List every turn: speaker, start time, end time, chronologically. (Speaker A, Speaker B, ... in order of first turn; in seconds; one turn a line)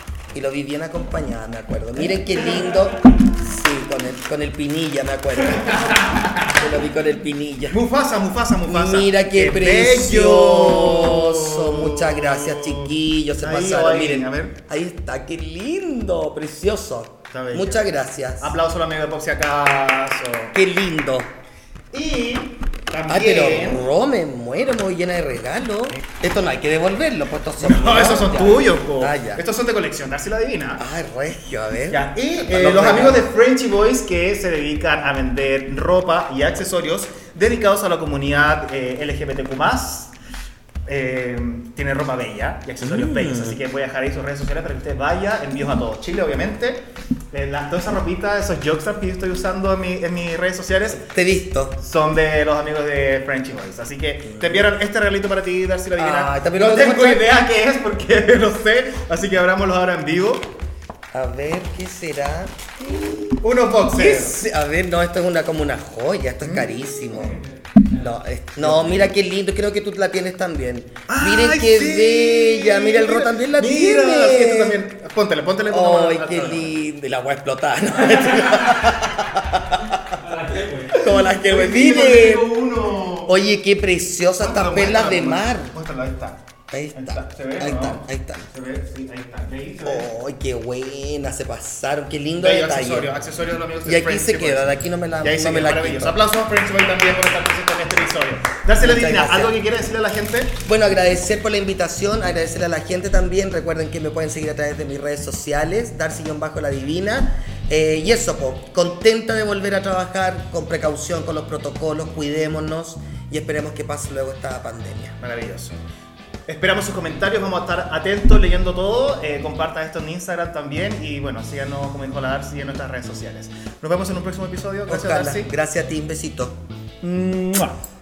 Speaker A: 0.3-7.8
Speaker B: 5.8-6.5
Speaker B: 7.7-14.6
Speaker A: 8.7-18.6
Speaker B: 17.3-20.6
Speaker A: 20.5-21.3
Speaker B: 21.9-23.9
Speaker A: 23.1-29.4
Speaker B: 27.6-30.9
Speaker A: 30.8-33.3
Speaker B: 31.9-40.1
Speaker B: 40.9-51.1
Speaker A: 42.8-43.6
Speaker A: 50.9-51.8
Speaker B: 51.8-60.5
Speaker A: 54.3-54.6
Speaker A: 56.0-57.3
Speaker A: 61.1-74.8
Speaker B: 63.4-64.4
Speaker B: 66.4-67.5
Speaker C: 67.3-68.2
Speaker B: 68.6-69.1
Speaker B: 71.1-76.8
Speaker A: 75.7-80.2
Speaker C: 78.3-78.8
Speaker C: 80.0-81.1
Speaker A: 80.9-82.5
Speaker B: 80.9-83.3
Speaker A: 83.2-85.7
Speaker B: 84.4-86.4
Speaker A: 86.7-88.5
Speaker B: 87.0-90.1
Speaker A: 89.8-93.1
Speaker B: 92.4-94.7
Speaker A: 93.8-96.2
Speaker B: 95.2-100.6
Speaker A: 98.8-99.6
Speaker A: 100.7-115.2
Speaker B: 115.2-115.8
Speaker B: 116.5-125.5
Speaker A: 124.9-126.5
Speaker B: 127.0-127.8